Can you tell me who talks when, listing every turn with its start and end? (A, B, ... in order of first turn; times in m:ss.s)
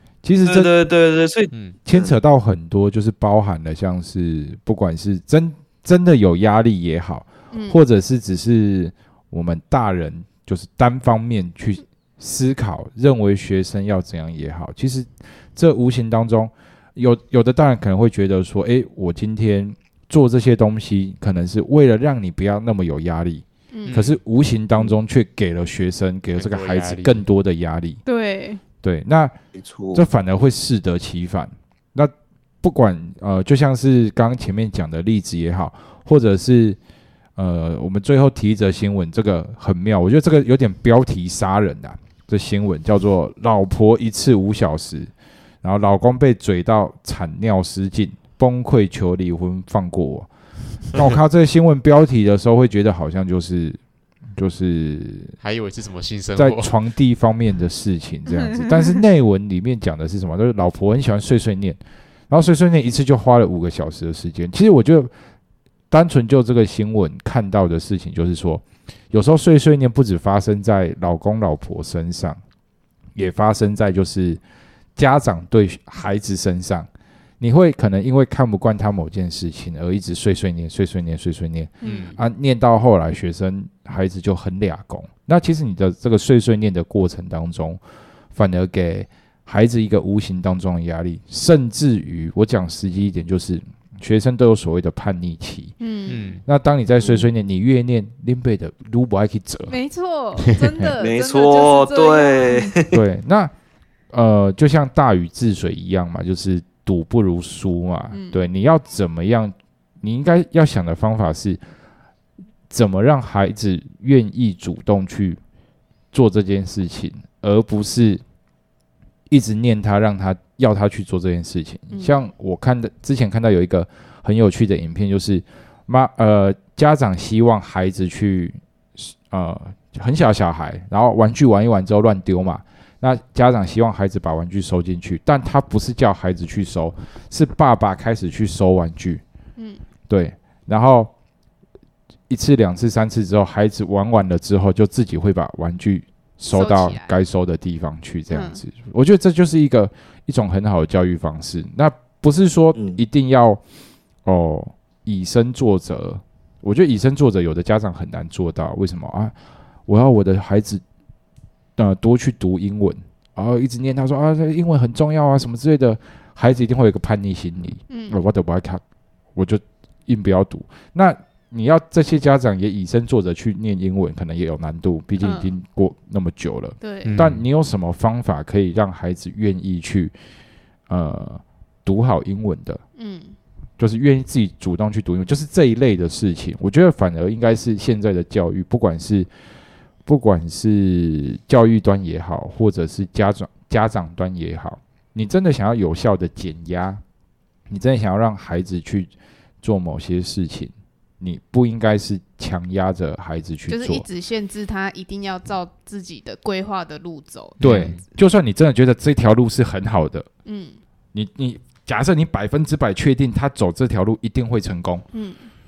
0:00.2-0:00.7 A
0:00.5-0:02.2 B
0:01.5-0:01.8 C
0:01.9-0:28.0 A
0:07.5-0:07.8 D
0:23.7-0:24.0 D
0:23.9-0:24.2 C
0:26.4-0:27.2 C
0:28.0-0:28.6 D
0:28.8-0:29.3 A
0:29.6-0:30.0 B
0:29.9-0:36.8 A
0:37.4-0:45.1 A
0:45.6-0:50.3 A
0:50.9-0:53.8 A
0:54.4-0:55.4 A
0:55.4-0:56.7 C
0:56.4-1:01.8 A
0:58.3-0:59.0 D
1:02.3-1:05.1 A
1:05.9-1:12.4 A
1:13.2-1:14.4 A
1:15.0-1:16.9 A
1:17.4-1:27.8 A
1:21.8-1:22.2 D
1:21.8-1:22.2 C
1:28.3-1:35.7 A
1:35.8-1:36.4 D
1:36.1-1:36.4 C
1:36.5-1:39.8 A
1:39.7-1:42.8 D
1:41.0-1:43.0 B
1:42.9-1:43.5 A
1:44.1-1:51.6 A
1:48.1-1:48.4 D
1:52.7-1:55.4 A
1:56.1-1:58.2 A
1:59.3-2:19.2 A
2:01.9-2:02.2 D
2:19.6-2:19.8 D
2:20.1-2:21.1 A
2:22.3-2:33.6 A
2:26.5-2:27.2 D
2:28.3-2:28.6 D
2:32.8-2:33.0 B
2:34.2-2:39.3 A
2:39.9-2:40.8 A
2:41.8-2:48.8 A
2:47.9-2:48.2 D
2:49.4-3:00.1 A
2:55.2-2:55.6 D
2:56.8-2:57.2 D
2:57.0-2:57.4 C
3:00.9-3:02.8 A
3:03.0-3:03.4 D
3:03.8-3:09.3 A
3:10.1-3:17.0 A
3:17.7-3:19.1 A
3:19.6-3:24.1 A
3:23.7-3:28.0 D
3:27.6-3:28.0 C
3:27.6-3:30.3 A
3:30.4-3:30.8 D
3:31.1-3:35.0 A
3:35.1-3:35.5 D